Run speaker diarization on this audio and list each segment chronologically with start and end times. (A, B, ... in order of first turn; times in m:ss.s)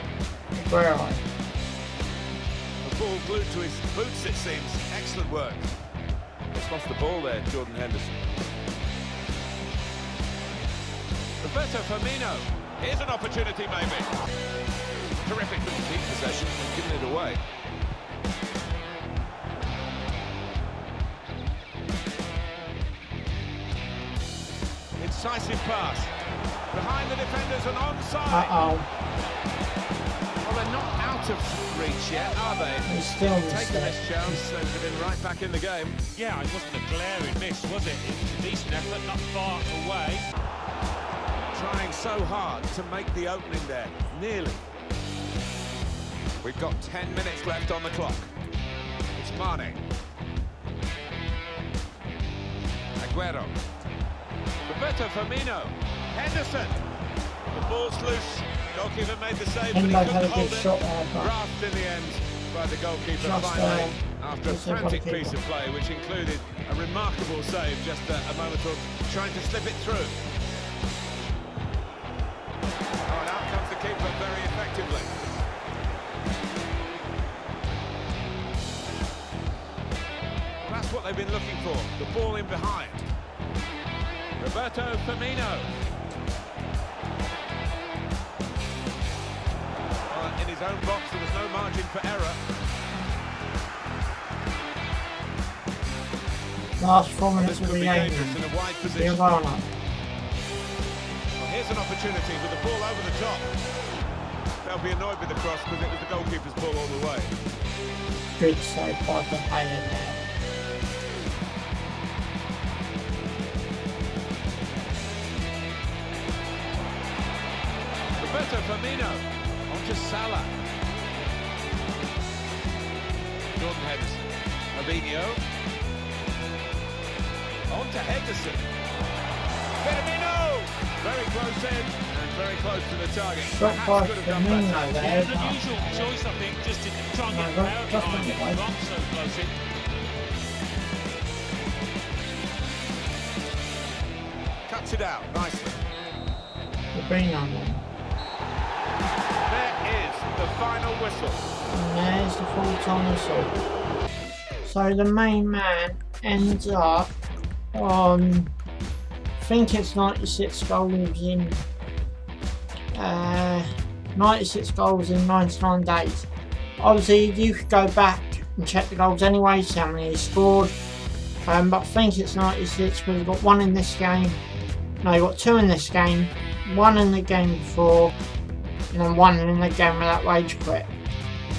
0:00.5-0:01.2 A
0:02.8-0:05.7 B
0:06.5-0:08.2 B
0:11.4-0:14.2 B
0:15.2-0:17.4 B
0:25.0-0:26.1 B
0:26.7-0:28.5 B
0:28.3-0:28.9 A
0:30.4-0:36.0 B
0:32.9-0:34.4 A
0:36.2-0:40.2 C
0:41.5-0:44.6 B
0:46.4-0:48.3 B
0:49.2-0:49.8 B
0:53.0-0:53.5 B
0:54.7-0:56.8 B
0:57.5-1:10.2 B
0:59.7-1:01.4 A
1:03.2-1:05.4 A
1:13.1-1:15.2 B
1:20.6-1:23.0 B
1:24.4-1:25.7 B
1:30.1-1:32.4 B
1:36.8-1:38.4 A
1:37.4-1:39.2 B
1:39.0-1:39.7 A
1:41.4-1:43.5 B
1:44.6-1:47.3 B
1:48.4-1:50.2 A
1:58.2-2:00.6 B
2:03.6-2:05.4 B
2:07.7-2:08.6 B
2:09.8-2:15.1 B
2:13.4-2:16.1 A
2:14.9-2:19.6 C
2:17.3-2:18.6 A
2:24.7-2:25.8 B
2:26.9-2:27.8 A
2:29.5-2:31.5 B
2:31.7-2:33.5 A
2:34.6-2:37.1 A
2:37.7-2:38.5 A
2:39.4-2:41.6 A
2:42.9-2:46.3 A
2:46.8-2:50.7 A
2:51.4-2:54.4 A
2:55.0-2:58.1 A
2:58.9-3:00.9 A